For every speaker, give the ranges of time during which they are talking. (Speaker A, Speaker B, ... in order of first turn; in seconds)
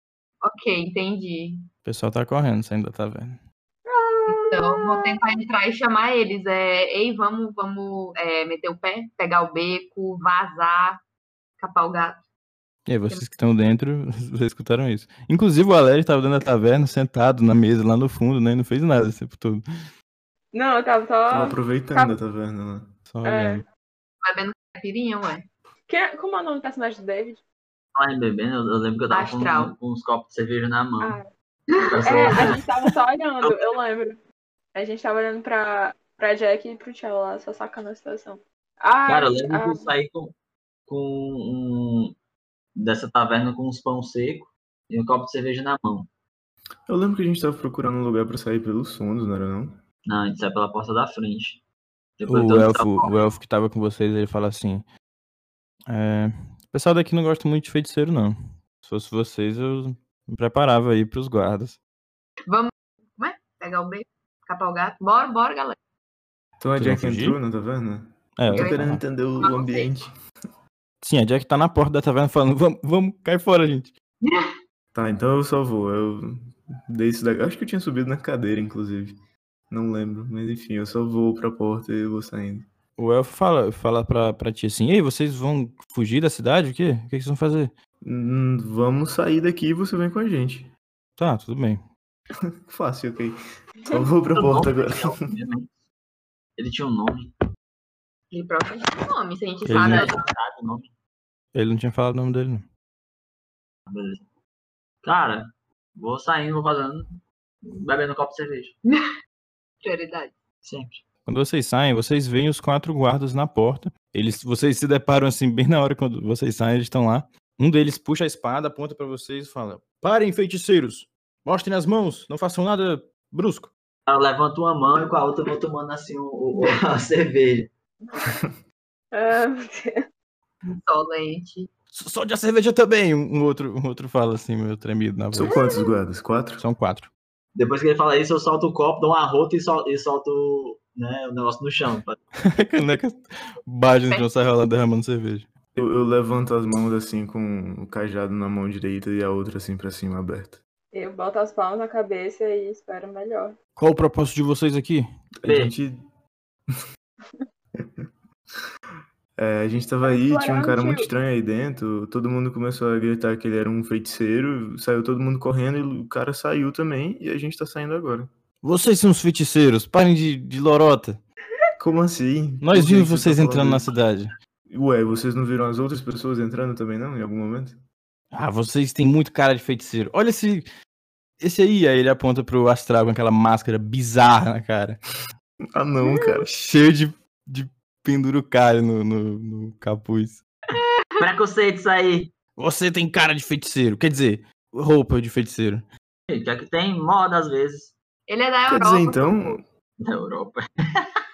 Speaker A: 0.4-1.6, 4.3-11.0, 11.6-12.2, 24.2-25.5, 29.1-29.8, 31.7-32.6, 62.5-65.8, 68.5-68.8, 69.4-69.9, 74.2-74.5, 98.3-100.2, 108.9-109.1, 109.8-110.4, 130.8-131.7, 190.8-191.3, 198.3-199.6
Speaker B: 1.9-3.4, 12.9-19.6, 23.1-23.6, 52.3-54.9, 55.9-61.8, 66.8-67.4, 68.4-69.0, 71.0-73.9, 83.0-87.7, 91.2-91.8, 99.7-100.1, 101.5-102.7, 111.3-123.7, 131.9-135.6, 136.6-137.1, 142.5-145.5, 153.8-155.1, 168.6-171.2, 172.6-174.3, 178.3-180.7, 181.4-185.0, 186.5-190.4, 192.6-195.9
Speaker C: 3.9-5.2, 20.5-22.2, 23.2-23.6, 25.9-27.4, 31.0-31.3, 32.0-34.2, 34.7-39.9, 129.1-130.0, 135.5-135.8, 150.9-153.6, 160.0-161.1
Speaker D: 21.3-23.0, 46.9-49.8, 66.6-70.1, 74.9-79.2, 79.7-82.7, 88.0-90.7, 92.6-93.4, 93.9-95.2, 135.3-136.6, 145.8-150.6, 155.4-156.0, 157.8-158.1, 159.4-168.3, 171.8-173.9, 174.7-177.8, 185.7-186.5, 198.7-199.6
Speaker E: 27.9-31.2, 31.8-32.6, 39.1-40.3, 40.9-42.1, 42.8-46.1, 50.1-51.6, 52.2-53.1, 94.3-95.7, 96.6-97.3, 99.8-100.9, 103.9-104.2, 105.0-108.8, 110.6-111.0, 124.1-127.7, 137.6-142.2, 155.4-155.7, 191.2-192.3, 196.3-197.9, 200.0-201.1